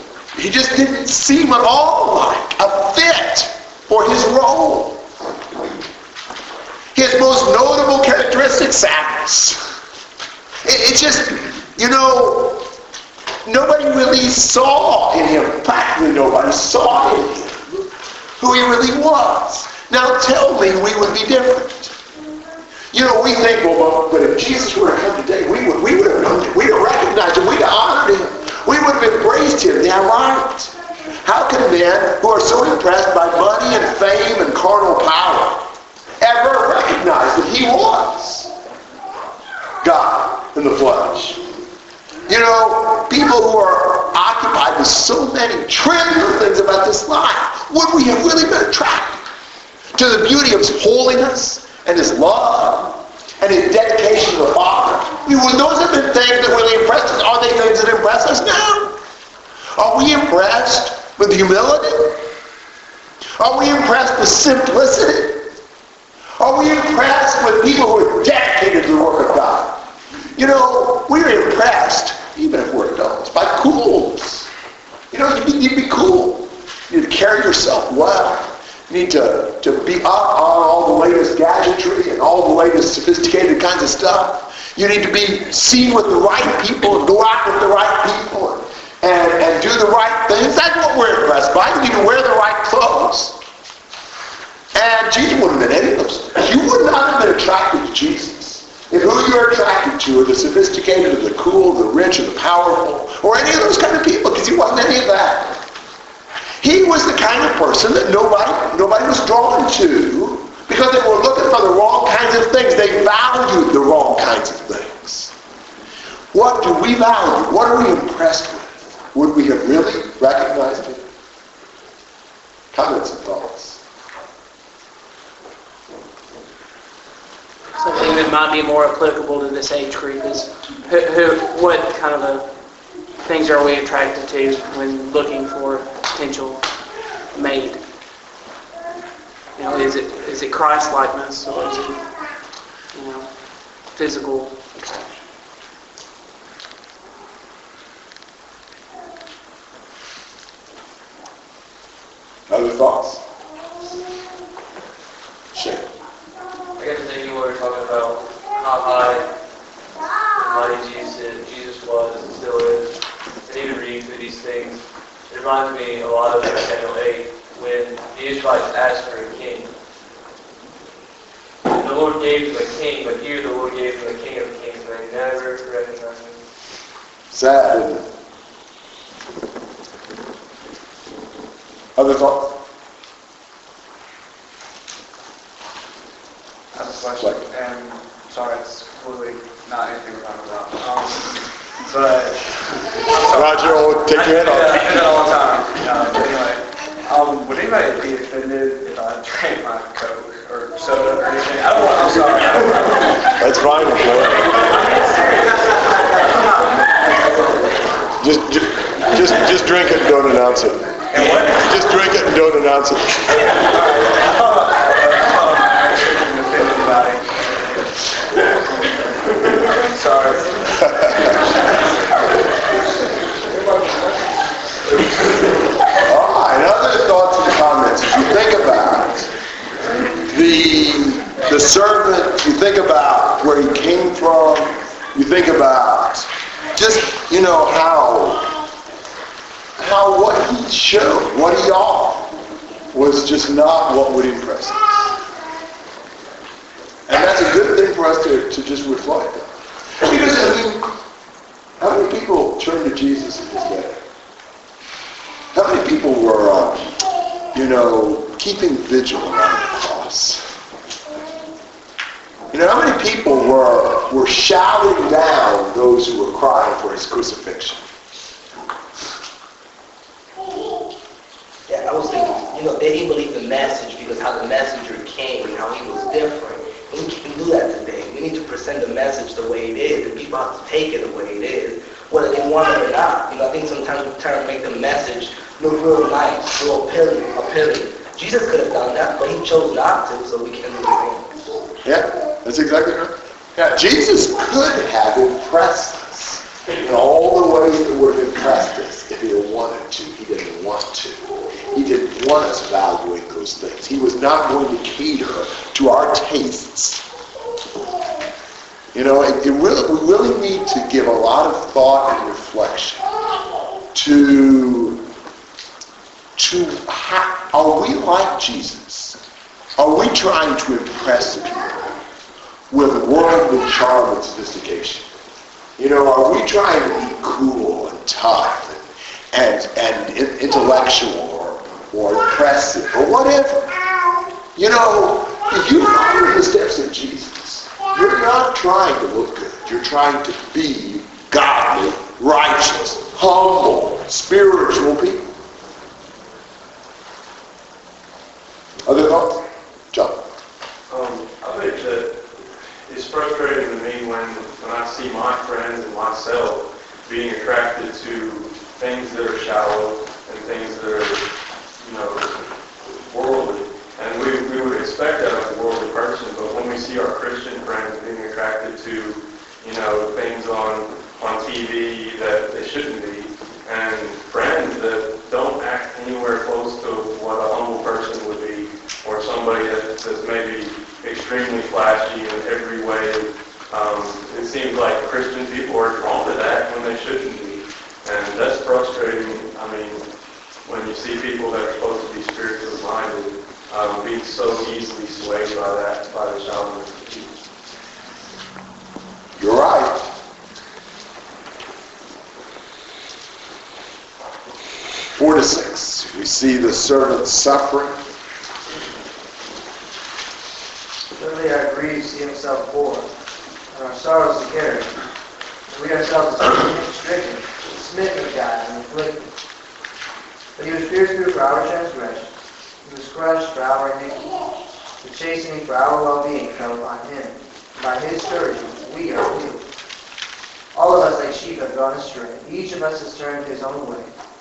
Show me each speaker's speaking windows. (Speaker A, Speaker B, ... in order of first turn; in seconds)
Speaker A: 0.3-5.0, 6.9-9.6, 10.6-12.7, 13.4-17.8, 18.4-21.9, 22.9-35.6, 36.2-38.5, 39.8-41.4, 42.3-49.2, 49.9-59.0, 59.8-62.2, 63.4-65.5, 66.4-74.5, 75.1-93.4, 94.7-105.6, 106.6-115.3, 116.3-121.0, 122.7-123.8, 152.5-153.2, 155.5-155.9, 177.3-178.1, 182.0-182.6, 187.2-187.4, 193.3-195.0, 203.4-204.7, 208.2-213.5, 225.9-229.3, 230.2-238.5, 239.8-242.4, 242.9-245.2, 247.1-250.9, 251.8-254.0, 255.5-256.9, 257.5-260.4, 262.5-267.8, 291.8-307.1, 308.9-313.1, 313.9-315.0, 316.4-319.2, 319.8-322.0, 322.7-325.1, 325.8-333.7, 334.6-345.3, 348.9-350.2, 399.4-400.1, 405.1-408.0
Speaker B: 127.8-132.5, 133.2-136.6, 137.3-137.8, 139.6-142.0, 142.9-143.3, 143.9-144.6
Speaker C: 156.8-159.3, 160.4-162.9, 163.4-169.7, 171.7-176.4
Speaker D: 186.7-192.5, 193.0-207.5, 211.1-211.7, 213.3-217.3, 219.6-221.5, 223.5-224.2
Speaker E: 271.7-291.3
Speaker F: 350.9-352.2, 352.9-361.2, 361.8-390.0, 390.7-397.3
Speaker G: 411.1-413.1, 413.7-414.9, 415.7-419.2, 420.6-422.3, 422.8-424.4, 425.0-429.6, 430.7-434.1